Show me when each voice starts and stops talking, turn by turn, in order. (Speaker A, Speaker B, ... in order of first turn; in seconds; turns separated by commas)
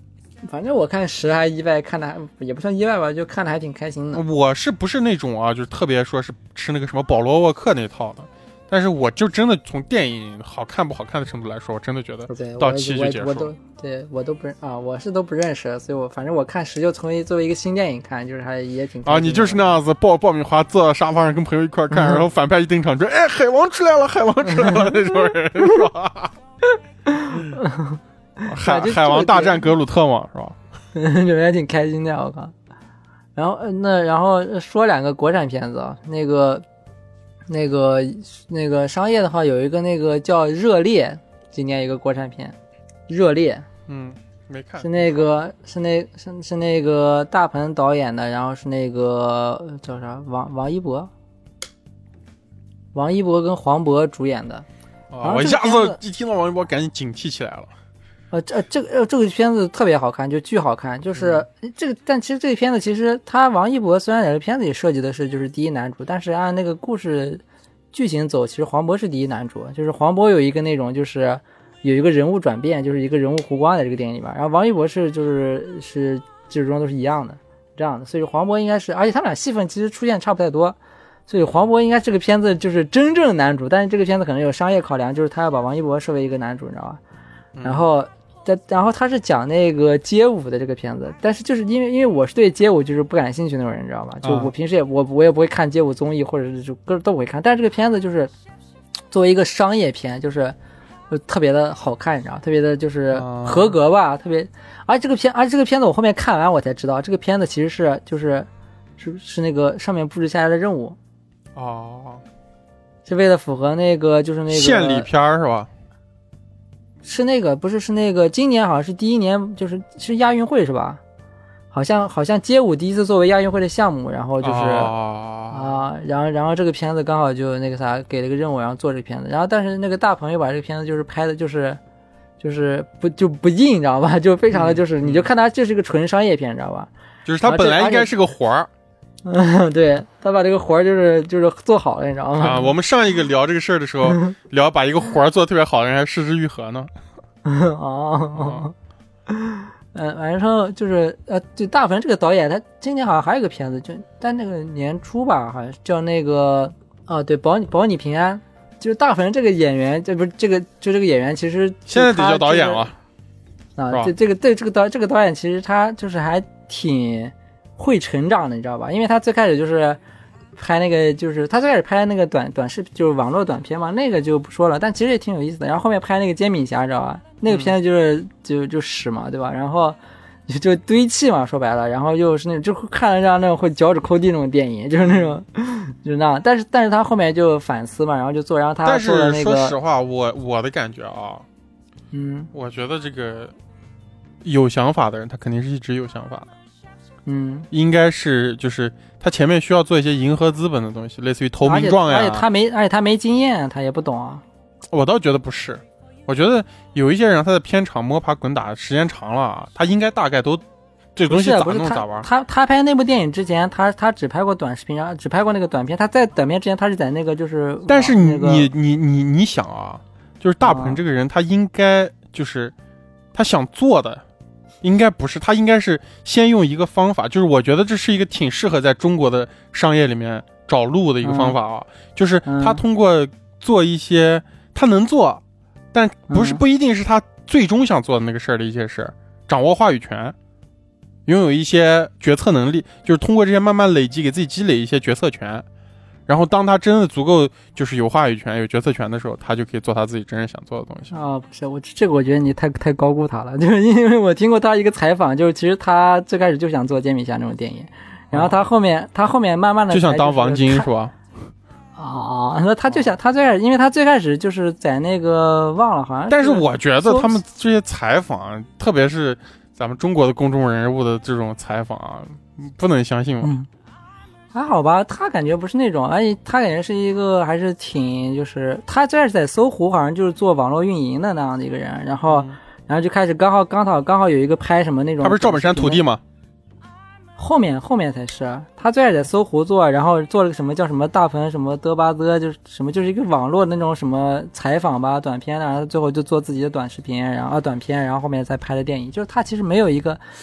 Speaker A: 0.5-4.2, Speaker B: 4.1-13.5, Speaker A: 12.3-19.7, Speaker B: 19.1-26.4, Speaker A: 27.1-29.7, Speaker B: 27.3-27.6, Speaker B: 28.4-30.6, Speaker A: 30.9-32.5, Speaker A: 33.4-36.6, Speaker A: 37.5-42.5, Speaker A: 43.1-43.7, Speaker B: 43.9-45.2, Speaker A: 44.8-51.1, Speaker A: 52.9-54.7, Speaker B: 55.1-57.7, Speaker A: 55.2-56.0, Speaker A: 58.3-67.4, Speaker B: 61.2-61.4, Speaker A: 67.9-80.8, Speaker A: 81.3-87.0, Speaker B: 87.6-87.9, Speaker A: 87.6-98.3, Speaker B: 94.2-94.5, Speaker A: 99.1-100.6, Speaker A: 101.1-111.0, Speaker B: 103.1-103.8, Speaker B: 111.5-112.2, Speaker A: 113.1-115.1, Speaker B: 114.5-115.7, Speaker A: 117.0-121.0, Speaker A: 121.7-125.0, Speaker B: 124.4-125.8, Speaker A: 125.5-131.8, Speaker A: 132.4-136.9, Speaker B: 134.5-135.3, Speaker B: 137.3-138.7, Speaker A: 137.4-138.1, Speaker A: 139.2-142.7, Speaker B: 142.4-146.9, Speaker A: 144.1-144.3, Speaker A: 147.4-148.7, Speaker B: 148.3-148.7, Speaker A: 149.3-162.9, Speaker B: 161.9-163.0, Speaker A: 163.8-170.0, Speaker A: 170.6-189.8, Speaker B: 185.0-185.4, Speaker B: 188.8-191.5, Speaker A: 192.1-192.5, Speaker B: 192.5-193.6, Speaker B: 194.4-196.5, Speaker A: 197.3-197.7, Speaker B: 197.7-202.5, Speaker A: 201.6-204.4, Speaker B: 204.9-210.6, Speaker B: 211.2-212.3, Speaker A: 211.3-218.7, Speaker B: 217.9-222.7, Speaker A: 220.6-221.0, Speaker B: 223.3-224.2, Speaker B: 224.8-235.4, Speaker A: 231.2-231.6, Speaker A: 232.5-232.8, Speaker B: 235.9-240.4, Speaker A: 236.3-236.6, Speaker B: 241.3-245.7, Speaker B: 246.3-251.1, Speaker A: 251.1-260.9, Speaker B: 258.3-258.6, Speaker B: 259.9-261.2, Speaker A: 262.0-267.4, Speaker B: 266.3-273.5, Speaker A: 273.4-273.7, Speaker A: 274.5-286.0, Speaker B: 282.3-282.6, Speaker B: 285.2-286.2, Speaker A: 287.4-300.2